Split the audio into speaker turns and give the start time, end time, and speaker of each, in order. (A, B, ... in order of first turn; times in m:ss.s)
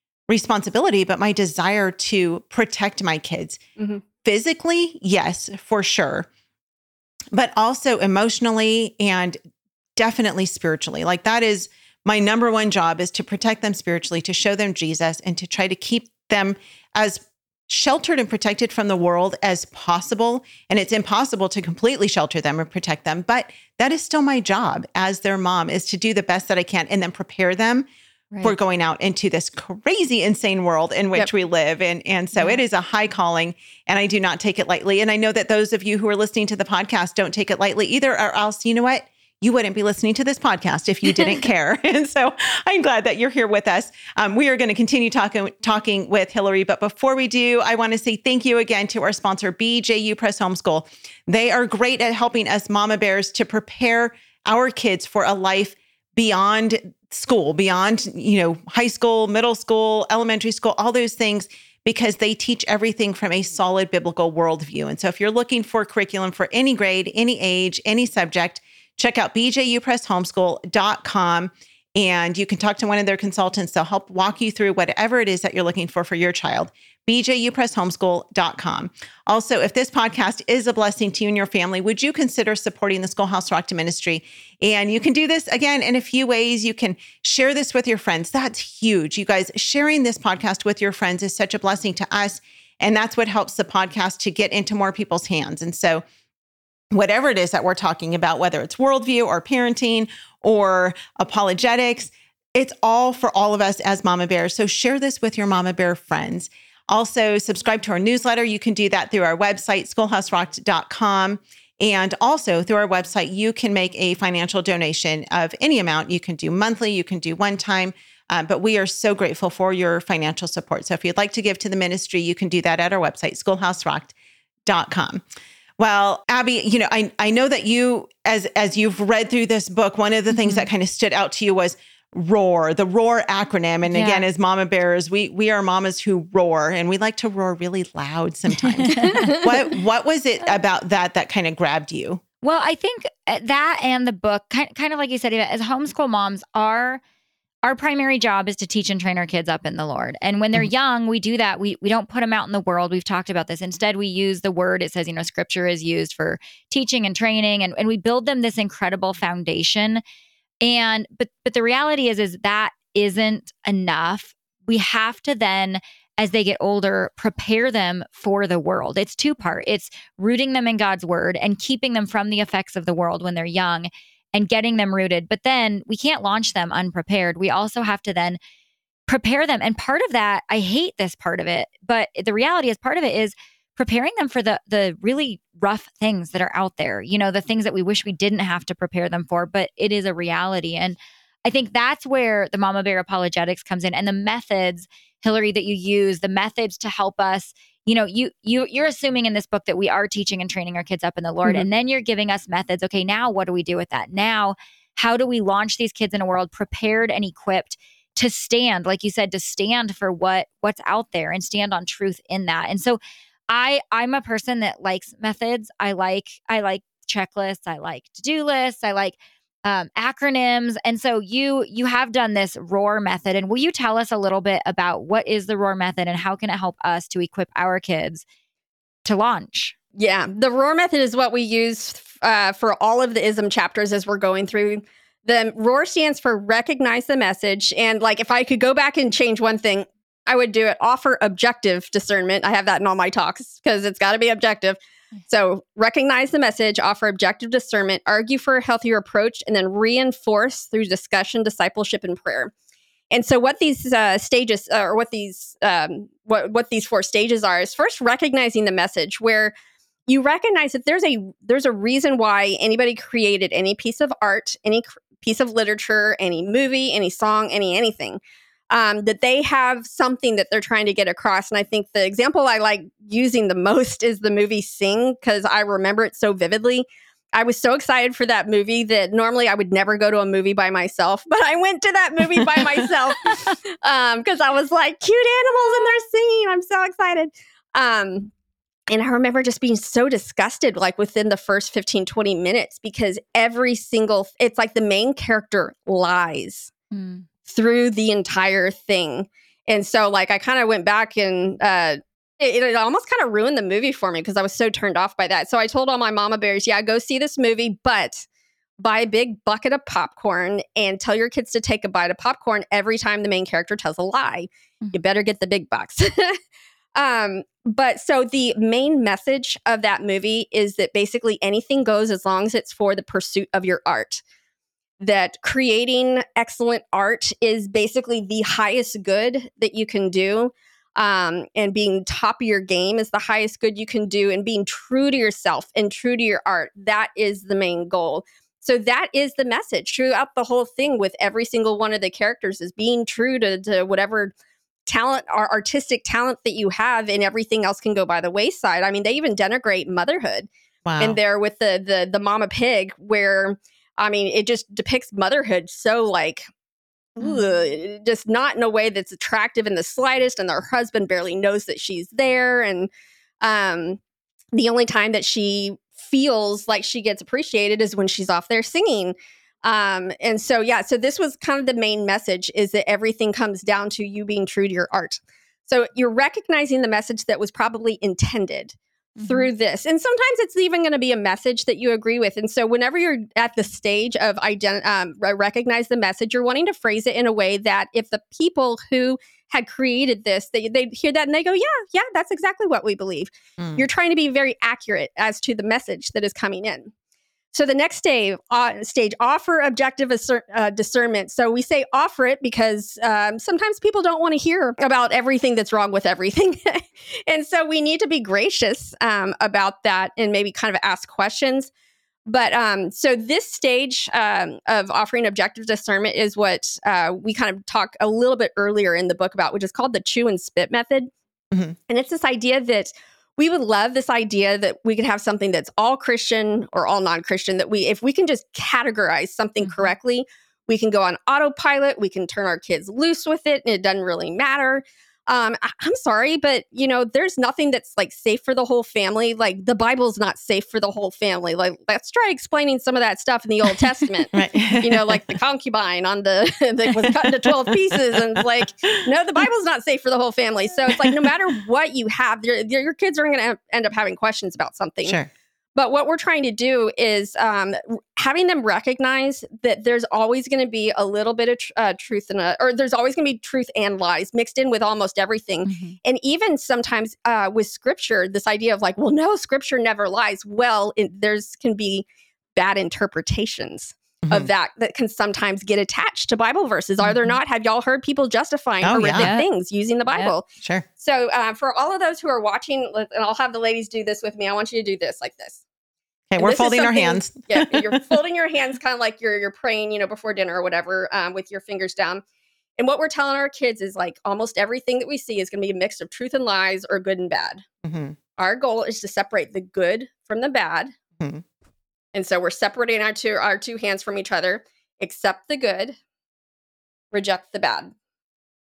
0:00.3-0:03.6 A
0:04.2-0:06.3 A
0:07.3-0:09.4 A
0:10.0-0:27.9 A
0:28.4-1:36.0 A
1:36.9-2:04.1 A
2:04.6-2:05.2 A
2:05.8-2:22.2 A
2:10.3-2:10.7 B
2:13.9-2:14.2 B
2:18.8-2:19.4 B
2:19.1-2:19.5 C
2:22.4-2:27.0 B
2:27.6-2:40.0 B
2:40.6-2:58.4 B
2:59.1-3:48.2 B
3:49.0-3:49.7 B
3:50.0-4:04.8 C
4:05.3-4:12.5 C
4:13.1-4:19.5 C
4:20.1-4:28.2 C
4:28.7-4:48.3 C
4:48.9-4:56.7 C
4:56.9-4:57.2 B
4:57.4-5:08.2 C
5:08.8-5:16.4 C
5:17.0-5:24.2 C
5:25.0-5:44.3 C
5:44.9-5:50.5 C
5:50.8-5:51.2 A
5:51.0-5:56.5 C
5:57.2-6:02.9 C
6:03.4-6:04.0 C
6:04.5-6:36.9 C
6:19.2-6:19.5 B
6:33.6-6:33.8 A
6:37.5-6:51.7 C
6:52.2-7:01.1 C
7:01.9-7:35.2 C
7:09.6-7:09.9 B
7:24.3-7:25.3 A
7:27.0-7:28.7 A
7:30.9-7:31.5 A
7:35.0-7:35.3 A
7:35.8-7:52.0 C
7:45.6-7:46.0 B
7:52.6-8:00.4 C
7:57.0-7:57.4 B
7:58.8-7:59.3 A
7:59.1-7:59.4 B
8:01.0-8:05.6 C
8:06.3-8:08.2 A
8:06.4-8:12.2 C
8:12.8-8:17.6 C
8:17.8-8:18.2 A
8:18.4-8:20.9 C
8:22.1-8:26.0 C
8:27.1-8:27.9 C